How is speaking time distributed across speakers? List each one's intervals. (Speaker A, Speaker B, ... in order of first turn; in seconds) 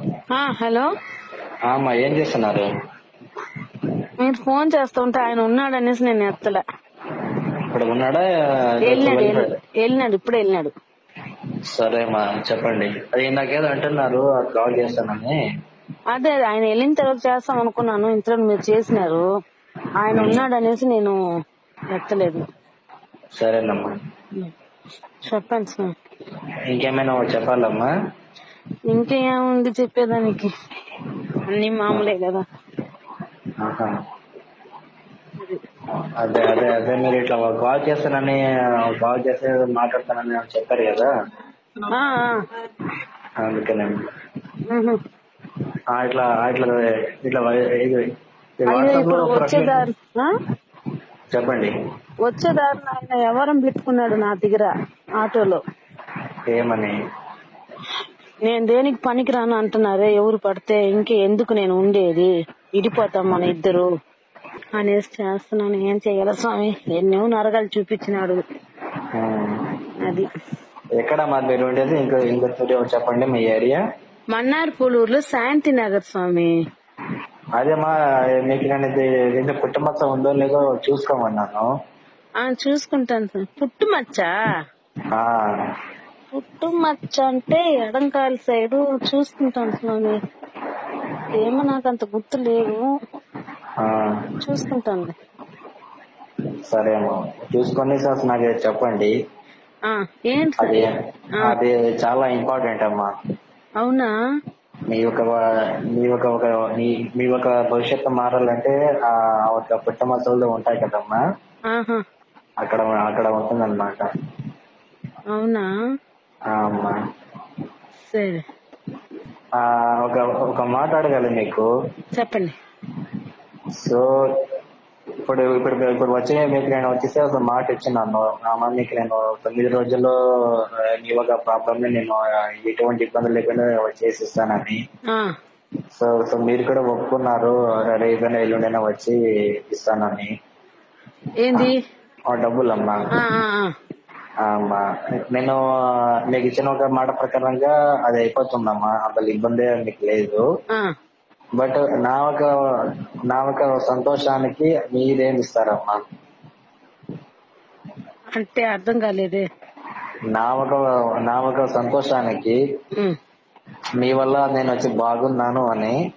Speaker A: 0.3-0.9, 4.2-6.6, 8.8-10.7, 16.1-19.2, 20.0-21.2, 21.9-22.4, 25.2-25.9, 28.9-30.5, 31.5-32.4, 41.9-42.4, 44.7-45.0, 48.7-50.3, 52.2-55.6, 58.5-63.9, 64.8-68.4, 70.0-70.3, 74.3-76.5, 82.4-84.3, 86.3-90.2, 91.3-92.9, 94.4-95.1, 99.9-100.8, 103.8-104.1, 111.7-112.0, 115.3-115.7, 118.1-118.4, 122.2-122.5, 141.4-141.8, 143.1-143.7, 158.3-159.4
Speaker B: 1.7-2.7, 7.7-8.2, 8.8-9.5, 11.7-15.4, 20.1-20.4, 23.4-23.9, 26.7-27.9, 33.6-33.9, 36.2-41.1, 43.4-44.0, 45.9-48.0, 48.6-49.8, 51.3-51.7, 56.5-57.0, 69.1-69.6, 71.0-73.8, 77.6-81.7, 85.1-85.4, 93.8-94.2, 96.7-99.1, 100.6-100.9, 101.4-103.1, 104.9-105.4, 106.0-111.2, 112.6-114.0, 116.5-117.0, 119.6-121.7, 123.8-124.1, 125.2-134.8, 135.9-140.3, 142.3-143.0, 144.4-145.6, 146.3-150.4, 151.6-152.5, 153.3-156.0, 160.3-162.6, 164.0-166.0